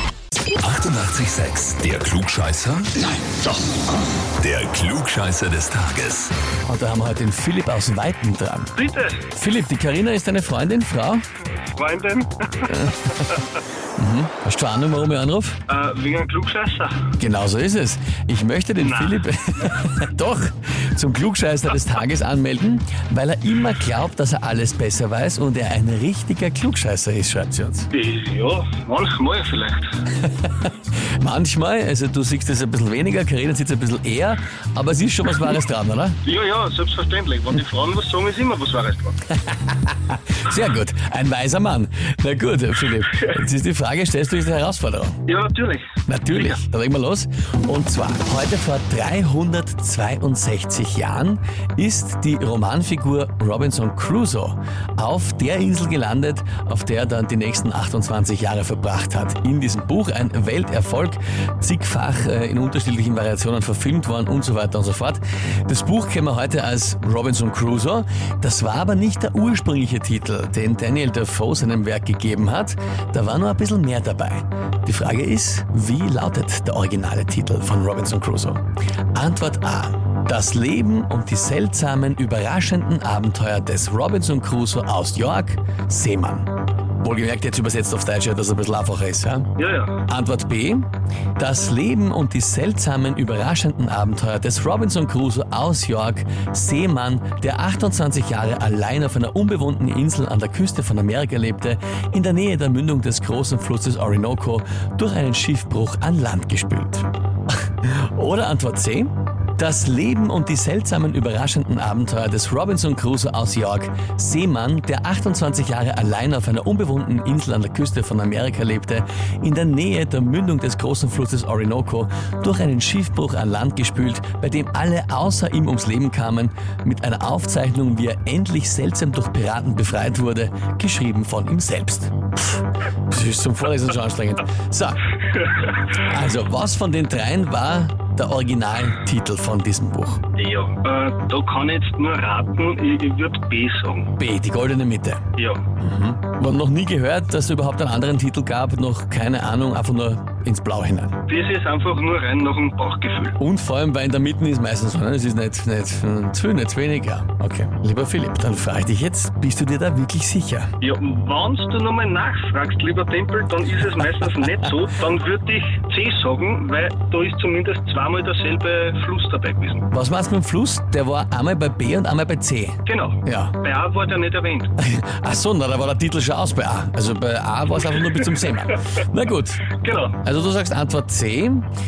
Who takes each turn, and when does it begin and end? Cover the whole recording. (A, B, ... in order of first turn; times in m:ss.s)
0:00.5-0:03.1 A
0:04.3-0:06.3 A
0:06.6-0:08.8 B
0:08.8-0:09.2 C
0:09.3-0:11.2 B
0:11.8-0:13.4 C
0:12.7-0:13.3 B
0:14.0-0:15.6 B
0:15.7-0:17.1 C
0:17.1-0:27.9 B
0:18.8-0:19.2 C
0:27.9-0:29.9 C
0:30.2-0:36.2 B
0:36.2-0:39.2 C
0:39.3-0:45.2 B
0:45.3-0:46.6 C
0:46.0-1:18.6 B
1:19.1-1:29.5 B
1:29.6-1:30.0 C
1:30.1-2:15.1 B
2:15.4-2:15.9 C
2:15.8-2:20.2 B
2:20.4-2:24.1 C
2:24.2-2:25.2 B
2:25.4-2:25.6 C
2:25.8-2:31.2 B
2:31.3-2:33.4 C
2:33.4-2:40.7 B
2:40.8-2:49.9 C
2:49.9-2:53.6 B
2:52.8-2:54.7 C
2:54.8-3:01.7 B
2:58.2-2:58.4 C
2:59.8-3:00.2 C